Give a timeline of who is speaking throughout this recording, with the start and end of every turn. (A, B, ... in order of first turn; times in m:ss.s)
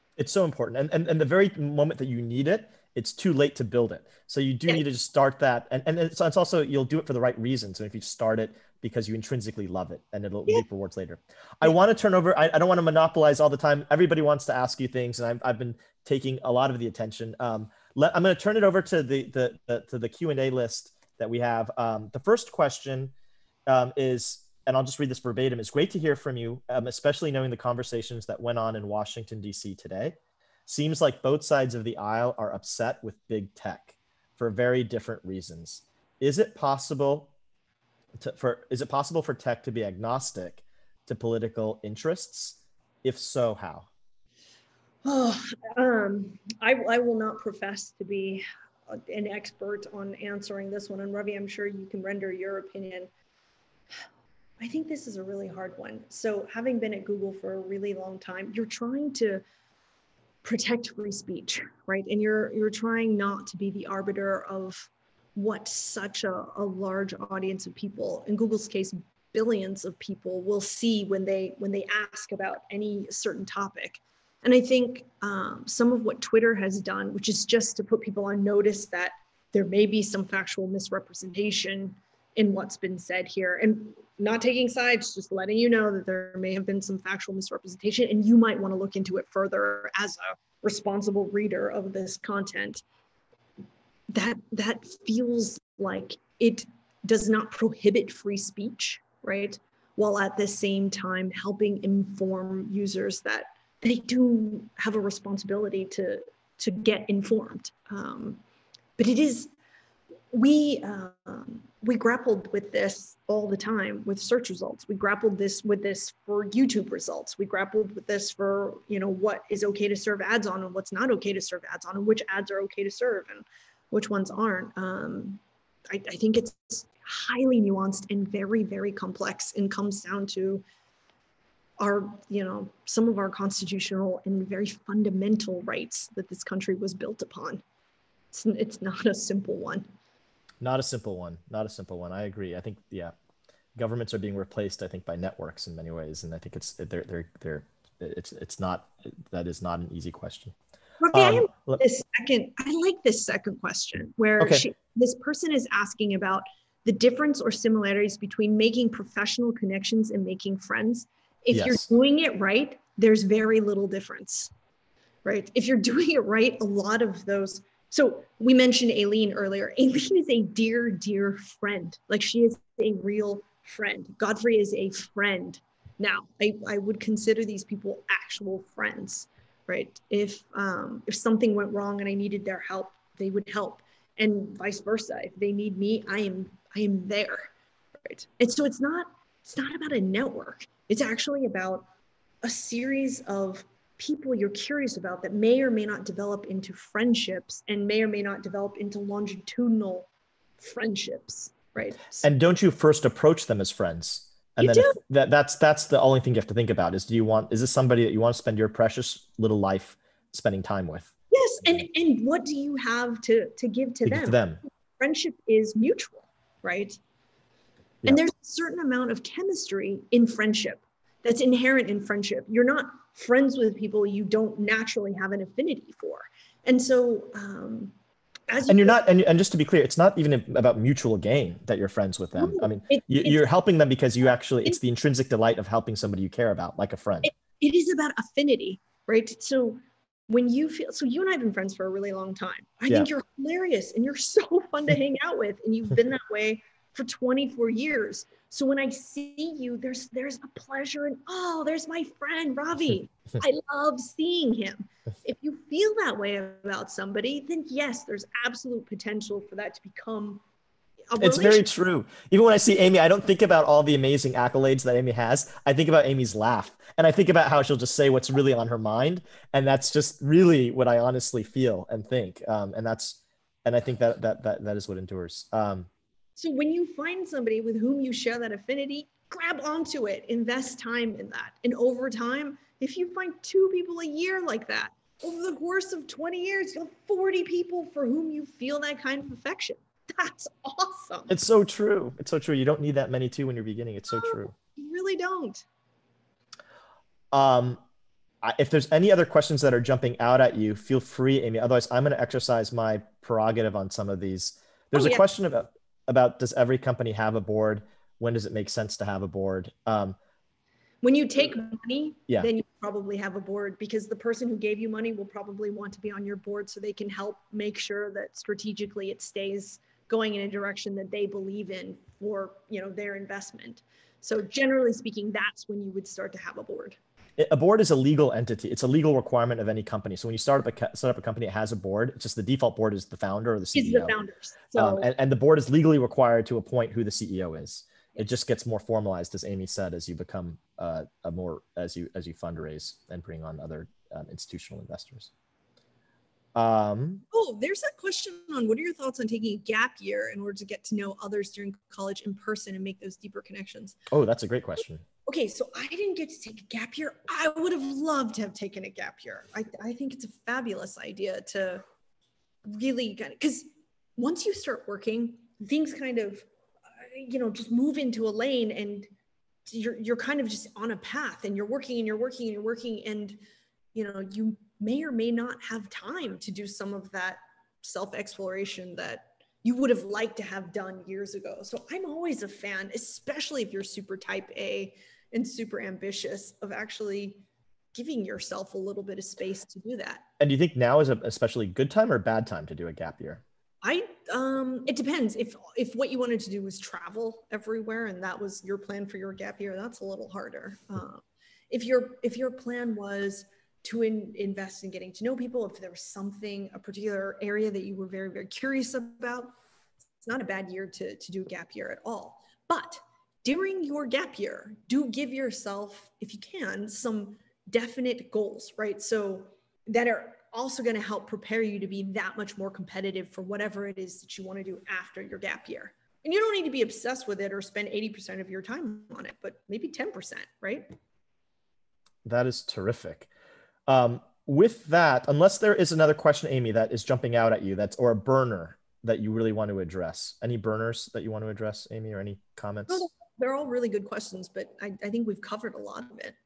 0:00.2-0:23.1 A
0:23.7-0:30.2 A
0:30.7-0:37.3 A
0:38.2-0:43.9 A
0:45.0-0:53.1 B
0:54.6-0:59.4 B
1:00.4-1:32.8 B
1:34.1-1:48.4 B
1:49.0-1:49.5 B
1:50.3-2:10.6 B
2:11.8-2:17.6 B
2:18.3-2:19.9 B
2:20.6-2:23.1 A
2:23.8-2:30.6 A
2:31.0-2:44.5 B
2:31.1-2:31.8 A
2:34.4-2:34.7 A
2:41.5-2:41.9 A
2:45.2-3:07.5 B
3:08.1-3:11.9 B
3:12.4-3:22.3 B
3:22.2-3:31.1 A
3:24.6-3:25.0 B
3:31.3-3:34.4 B
3:34.0-3:34.6 A
3:35.0-3:37.0 B
3:38.1-3:47.9 B
3:48.5-3:49.0 B
3:48.7-3:57.3 A
3:52.4-3:53.4 B
3:57.2-4:20.4 B
4:21.1-4:21.6 B
4:21.2-4:35.9 A
4:36.4-4:51.3 B
4:51.3-4:54.5 A
4:54.1-4:55.6 B
4:57.3-4:57.8 A
4:58.4-5:10.2 A
5:04.9-5:05.2 B
5:11.0-5:27.0 B
5:27.4-5:34.1 A
5:33.8-5:35.1 B
5:34.8-5:45.3 A
5:46.6-5:47.2 A
5:47.3-5:54.0 B
5:54.1-5:55.0 A
5:55.3-6:01.8 B
6:02.7-6:06.5 B
6:07.0-6:09.1 B
6:09.7-6:13.4 B
6:14.0-6:27.4 B
6:27.9-6:30.2 B
6:30.4-6:33.4 A
6:33.8-6:49.5 B
6:50.2-7:10.9 B
7:12.2-7:13.3 A
7:13.9-7:23.1 A
7:22.9-7:26.4 B